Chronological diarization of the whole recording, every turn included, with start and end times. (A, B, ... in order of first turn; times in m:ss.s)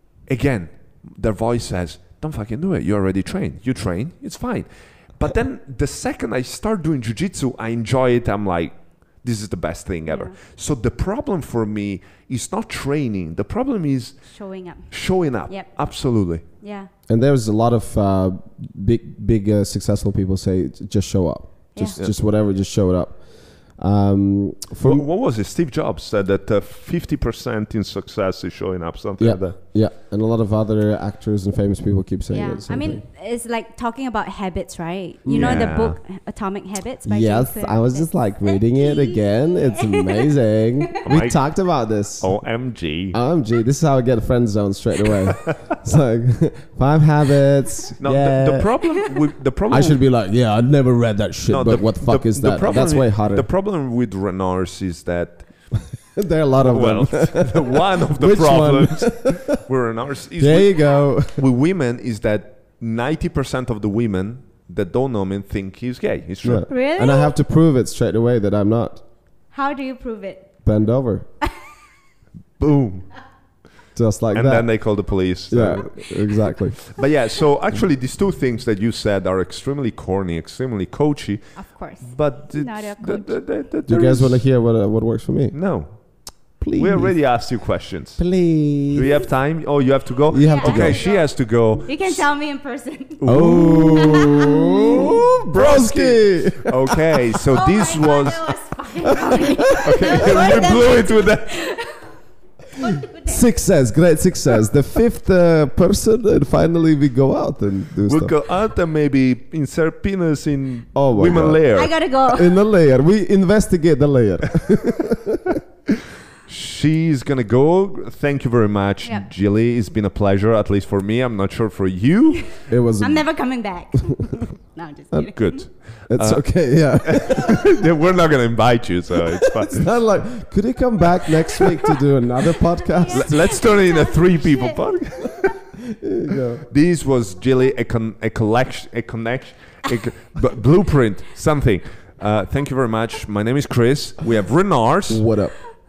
0:00.3-0:14.2 A
0:10.1-0:10.4 B
0:14.3-0:16.9 B
0:14.9-0:16.4 A
0:17.1-0:25.1 C
0:21.8-0:22.1 A
0:24.8-0:29.6 A
0:29.2-0:33.0 C
0:32.3-0:40.3 B
0:35.2-0:35.7 C
0:35.3-0:36.0 A
0:37.0-0:42.3 C
0:41.0-0:41.4 A
0:42.2-0:43.2 A
0:43.1-0:48.7 C
0:48.0-0:50.0 A
0:49.7-0:53.5 C
0:51.5-0:55.7 A
0:56.2-0:59.4 C
0:56.6-1:06.7 A
1:00.4-1:01.4 C
1:06.4-1:09.0 C
1:06.7-1:07.3 B
1:09.5-1:10.5 B
1:10.6-1:11.3 C
1:12.6-1:13.1 A
1:14.0-1:14.8 C
1:14.3-1:24.4 A
1:15.5-1:16.8 C
1:21.6-1:23.5 B
1:23.9-1:25.6 C
1:25.5-1:26.0 A
1:26.6-1:28.3 A
1:26.6-1:27.4 C
1:28.2-1:29.2 C
1:28.9-1:32.2 A
1:30.3-1:31.0 C
1:30.4-1:35.0 B
1:33.2-1:38.5 A
1:33.2-1:37.0 C
1:37.5-1:42.0 B
1:39.0-1:40.6 C
1:39.8-1:41.6 A
1:42.8-1:43.5 B
1:43.2-1:48.4 C
1:48.1-1:51.9 A
1:50.9-1:51.6 C
1:51.7-1:52.6 B
1:52.2-1:55.6 C
1:56.5-2:02.5 A
2:02.4-2:05.6 B
2:02.7-2:03.3 C
2:05.3-2:10.0 A
2:05.9-2:07.7 C
2:09.6-2:13.6 C
2:12.8-2:15.5 B
2:13.1-2:15.4 A
2:15.9-2:16.6 C
2:16.7-2:25.4 A
2:25.1-2:25.6 C